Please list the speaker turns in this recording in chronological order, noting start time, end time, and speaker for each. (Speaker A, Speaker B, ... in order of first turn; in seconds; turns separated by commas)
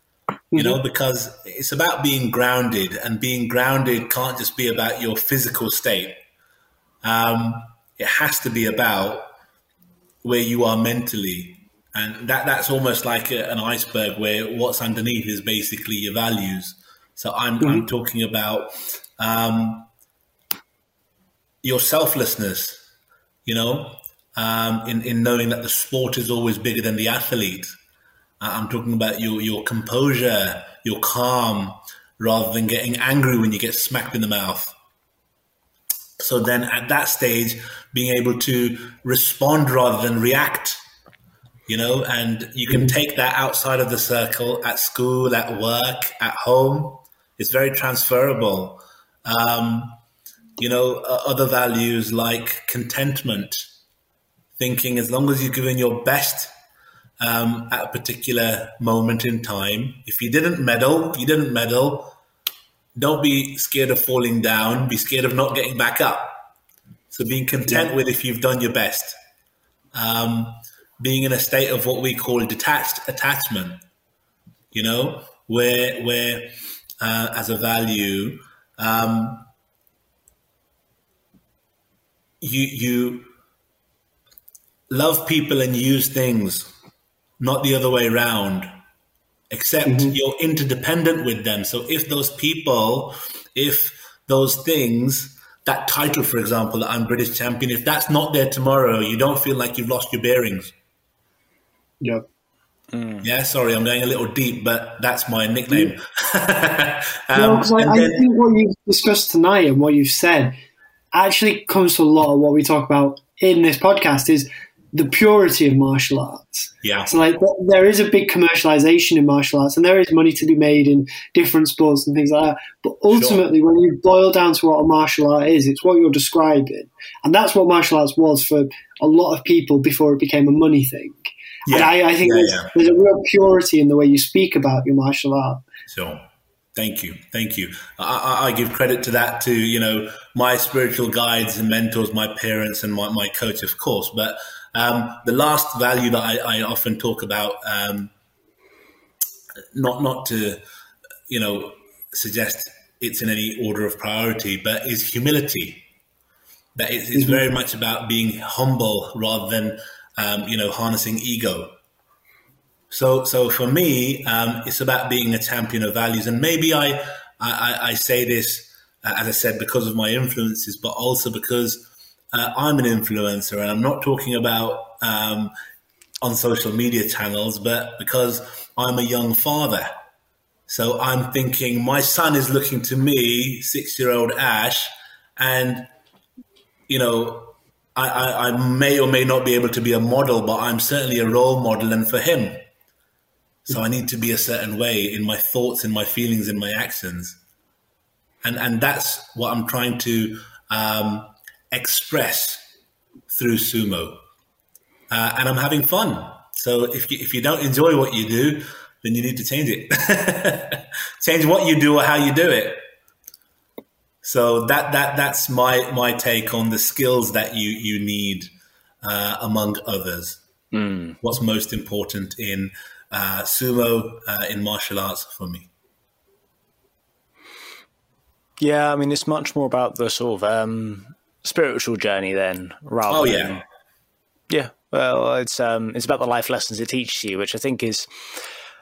Speaker A: 0.5-0.8, Speaker B: 0.5-6.2, Speaker B: 7.0-9.3, Speaker B: 10.2-19.9, Speaker A: 17.6-17.9, Speaker B: 21.6-22.8, Speaker B: 23.4-27.8, Speaker B: 28.4-34.7, Speaker B: 36.2-40.8, Speaker B: 41.7-50.0, Speaker B: 50.6-53.7, Speaker B: 54.6-56.5, Speaker B: 57.2-62.1, Speaker B: 63.0-66.5, Speaker B: 67.1-69.2, Speaker B: 69.9-73.8, Speaker B: 74.7-79.5, Speaker B: 82.4-83.3, Speaker B: 84.9-86.7, Speaker B: 87.4-88.7, Speaker B: 89.5-100.7, Speaker A: 89.9-90.1, Speaker C: 102.9-103.3, Speaker B: 103.2-108.2, Speaker A: 107.3-110.6, Speaker A: 111.1-135.6, Speaker B: 116.8-117.1, Speaker B: 123.1-123.4, Speaker B: 131.7-132.7, Speaker B: 135.9-148.1, Speaker B: 149.7-150.6, Speaker B: 151.3-155.8, Speaker B: 156.8-161.7, Speaker B: 162.9-175.5, Speaker B: 176.2-179.9, Speaker B: 180.7-185.9, Speaker B: 186.9-192.6, Speaker B: 193.7-197.4, Speaker B: 198.4-202.6, Speaker B: 203.3-204.2, Speaker B: 205.1-212.9, Speaker B: 214.2-218.5, Speaker B: 219.0-220.4, Speaker C: 220.7-221.2, Speaker B: 221.2-225.7, Speaker C: 228.6-233.6, Speaker B: 233.1-233.6, Speaker C: 234.5-238.4